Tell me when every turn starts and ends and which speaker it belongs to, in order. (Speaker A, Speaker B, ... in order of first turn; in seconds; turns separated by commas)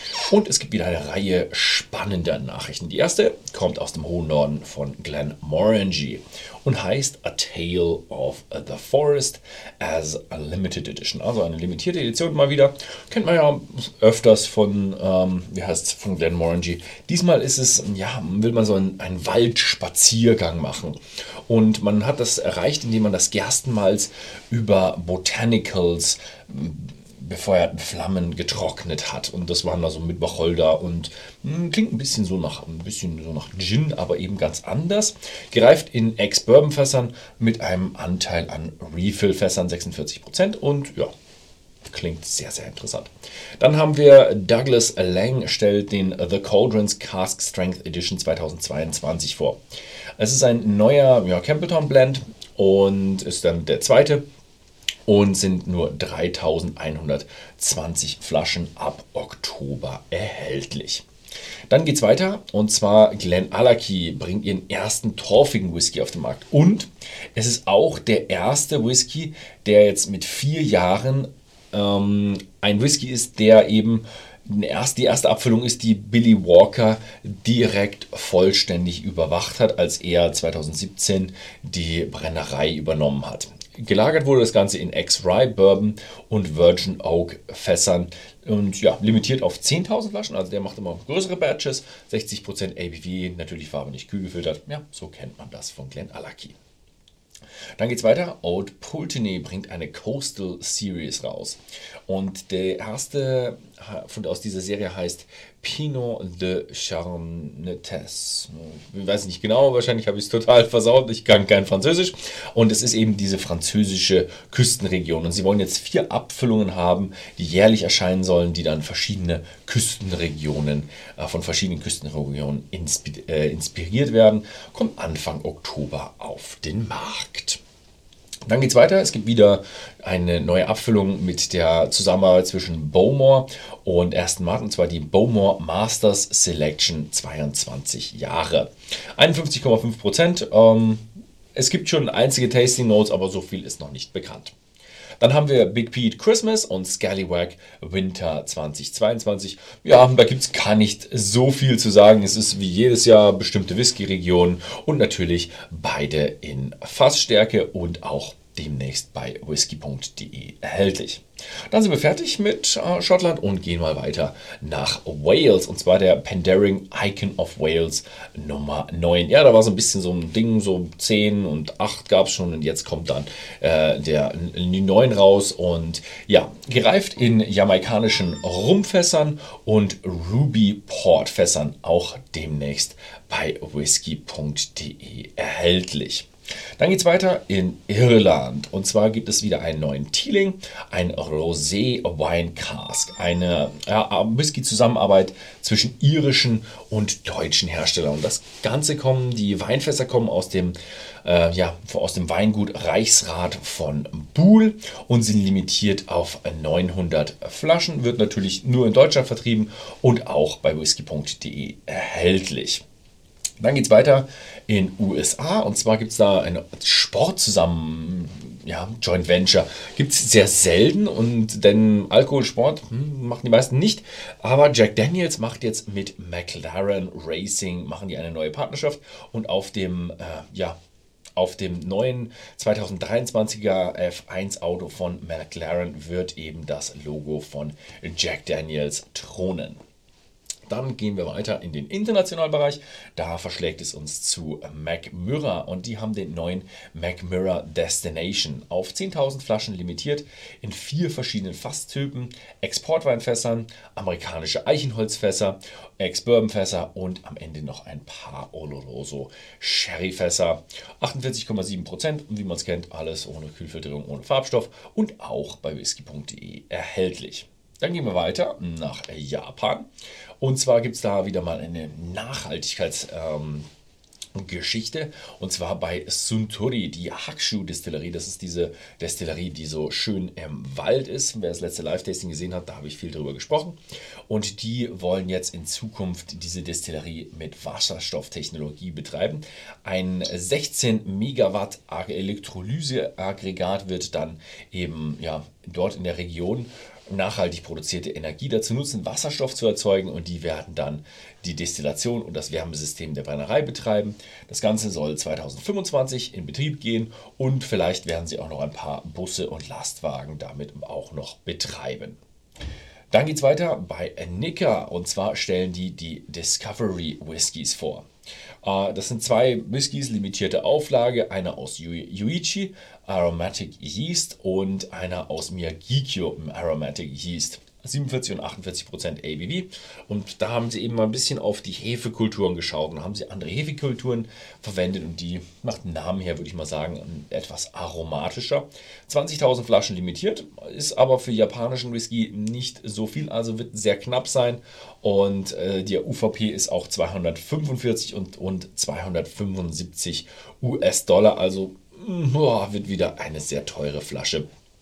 Speaker A: 0.3-41.1, Speaker A: 41.8-49.6, Speaker A: 50.2-54.2, Speaker A: 55.1-61.0, Speaker A: 61.7-96.5, Speaker A: 97.8-127.6, Speaker A: 128.5-144.5, Speaker A: 145.2-186.3, Speaker A: 186.8-212.8, Speaker A: 213.6-230.8, Speaker A: 231.3-239.8, Speaker A: 240.7-269.9, Speaker A: 270.4-273.7, Speaker A: 274.3-312.2, Speaker A: 313.1-318.1, Speaker A: 318.6-354.4